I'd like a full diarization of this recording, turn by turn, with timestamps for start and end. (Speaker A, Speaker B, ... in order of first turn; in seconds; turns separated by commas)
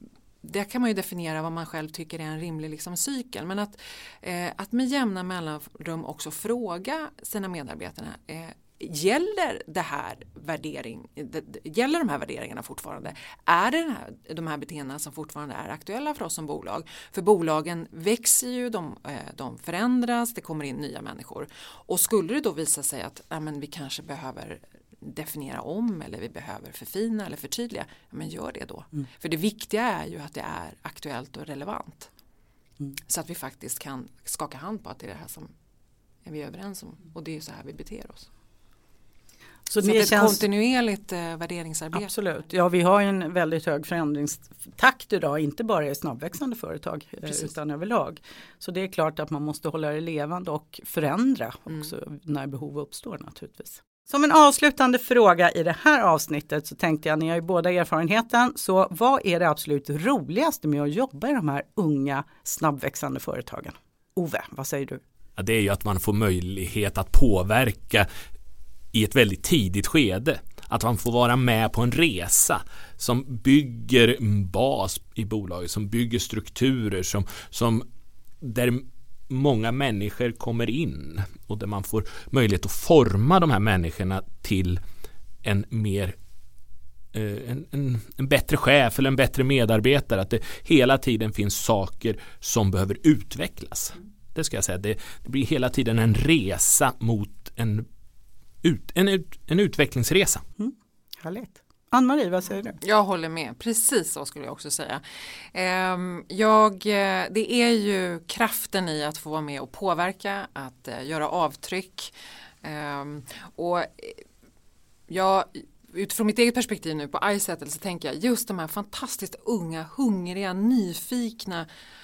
Speaker A: 0.4-32.1, Speaker A: 33.1-35.5, Speaker A: 36.2-38.3, Speaker B: 39.7-40.4, Speaker A: 39.8-42.1, Speaker B: 41.9-65.0, Speaker C: 65.4-68.1, Speaker C: 68.9-77.8, Speaker C: 78.4-84.8, Speaker C: 85.4-86.2, Speaker C: 87.1-97.9, Speaker C: 98.6-100.4, Speaker B: 100.6-102.8, Speaker A: 102.8-112.1, Speaker A: 112.6-114.2, Speaker A: 115.1-121.7